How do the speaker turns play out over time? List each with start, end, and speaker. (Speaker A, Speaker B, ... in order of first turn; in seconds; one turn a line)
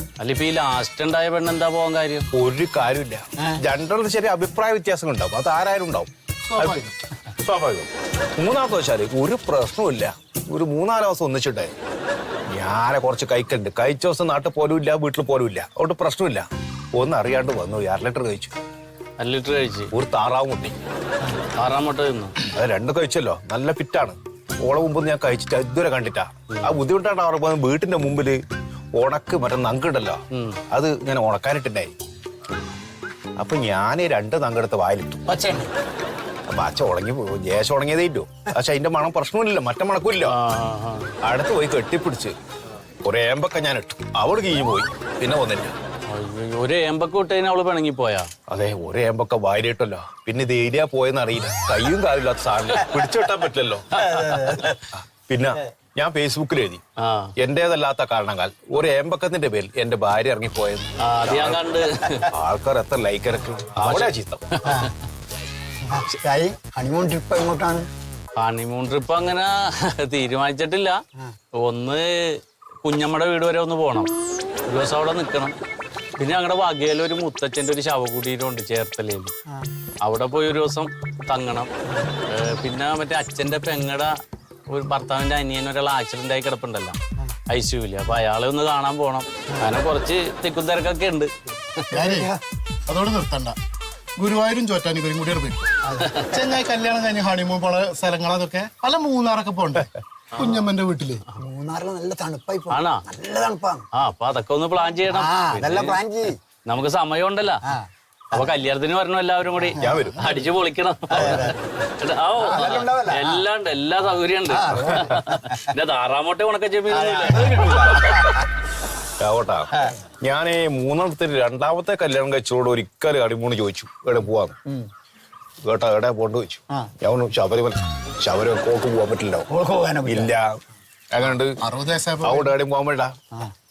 Speaker A: 0.2-2.3
Speaker B: 2.3-11.7
Speaker C: 6.5-6.9
Speaker B: 12.5-18.5
Speaker A: 19.2-19.9
Speaker B: 19.9-20.8
Speaker A: 21.6-22.4
Speaker B: 22.5-28.4
Speaker B: 29.0-30.2
Speaker A: 30.3-30.6
Speaker B: 30.7-31.9
Speaker B: 33.4-35.2
Speaker D: 35.3-35.7
Speaker B: 36.5-40.4
Speaker A: 40.2-41.1
Speaker B: 41.2-42.4
Speaker B: 43.0-45.8
Speaker A: 46.1-48.3
Speaker B: 48.5-53.9
Speaker D: 54.0-54.7
Speaker B: 54.9-56.8
Speaker A: 57.0-57.3
Speaker B: 57.4-61.6
Speaker A: 61.0-62.3
Speaker B: 62.2-64.4
Speaker A: 63.8-64.8
Speaker D: 65.9-67.9
Speaker A: 68.4-71.0
Speaker A: 71.6-74.1
Speaker A: 74.7-75.5
Speaker A: 76.2-79.3
Speaker A: 80.0-81.7
Speaker A: 82.3-84.2
Speaker A: 84.7-87.0
Speaker A: 87.5-91.3
Speaker C: 91.9-92.3
Speaker D: 91.9-92.4
Speaker C: 92.9-93.6
Speaker C: 94.2-95.7
Speaker D: 95.8-96.2
Speaker C: 96.3-101.2
Speaker D: 101.4-103.9
Speaker A: 102.7-103.0
Speaker A: 104.0-106.0
Speaker D: 105.1-106.4
Speaker A: 106.7-107.6
Speaker D: 107.7-108.5
Speaker A: 108.3-118.4
Speaker B: 109.8-110.3
Speaker D: 111.1-111.5
Speaker D: 112.4-113.5
Speaker D: 114.5-115.7
Speaker D: 116.9-118.4
Speaker B: 119.2-124.6
Speaker B: 125.7-129.5
Speaker D: 129.5-130.3
Speaker B: 130.1-130.6
Speaker B: 131.1-131.5
Speaker C: 131.6-132.5
Speaker B: 132.2-133.2